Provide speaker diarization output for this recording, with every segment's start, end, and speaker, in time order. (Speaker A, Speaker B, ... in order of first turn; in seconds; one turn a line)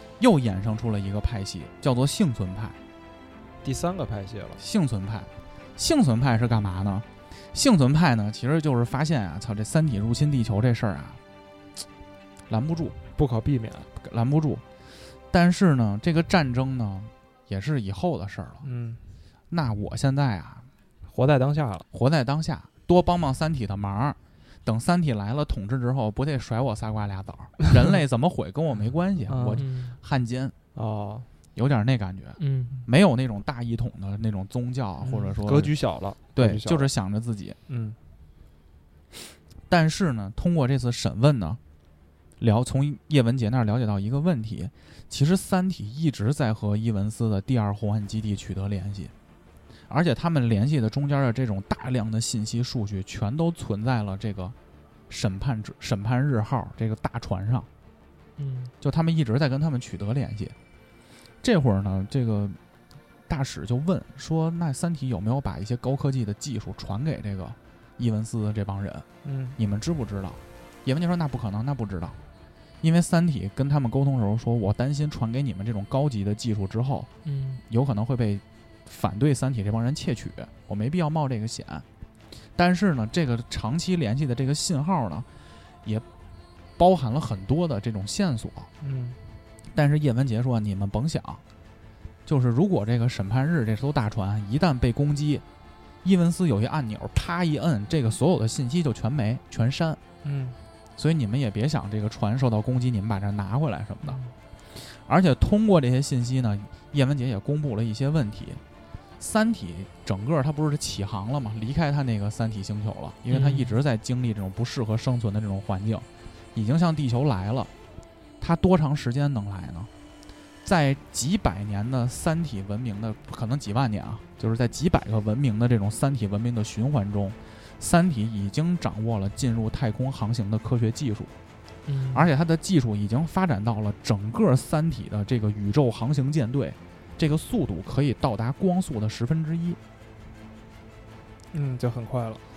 Speaker A: 0.2-2.8
Speaker B: 3.6-4.6
Speaker A: 4.6-11.2
Speaker A: 12.5-13.0
Speaker B: 13.2-13.9
Speaker A: 14.0-14.6
Speaker A: 15.3-18.6
Speaker B: 18.6-19.0
Speaker A: 19.5-20.7
Speaker B: 21.1-21.9
Speaker A: 21.9-30.6
Speaker B: 29.3-29.6
Speaker C: 29.6-29.9
Speaker B: 30.8-31.3
Speaker A: 31.6-35.7
Speaker C: 32.4-32.8
Speaker B: 35.0-36.9
Speaker A: 36.4-37.6
Speaker B: 37.7-38.0
Speaker A: 39.7-41.6
Speaker A: 42.4-49.1
Speaker A: 49.9-54.5
Speaker A: 55.1-57.7
Speaker C: 58.4-58.7
Speaker A: 58.8-60.5
Speaker A: 61.4-62.6
Speaker A: 63.3-69.1
Speaker B: 69.2-69.6
Speaker A: 69.6-72.2
Speaker A: 72.8-77.1
Speaker C: 77.2-77.6
Speaker A: 77.7-81.8
Speaker A: 82.6-85.3
Speaker A: 86.8-88.7
Speaker B: 88.8-89.2
Speaker A: 89.7-91.4
Speaker A: 92.3-95.4
Speaker A: 96.0-100.0
Speaker B: 100.2-100.6
Speaker A: 101.0-104.2
Speaker C: 104.0-104.3
Speaker A: 104.8-108.6
Speaker A: 109.2-117.7
Speaker C: 113.3-113.8
Speaker A: 118.4-119.9
Speaker A: 120.6-131.3
Speaker C: 131.9-132.3
Speaker A: 132.1-139.8
Speaker B: 141.5-142.4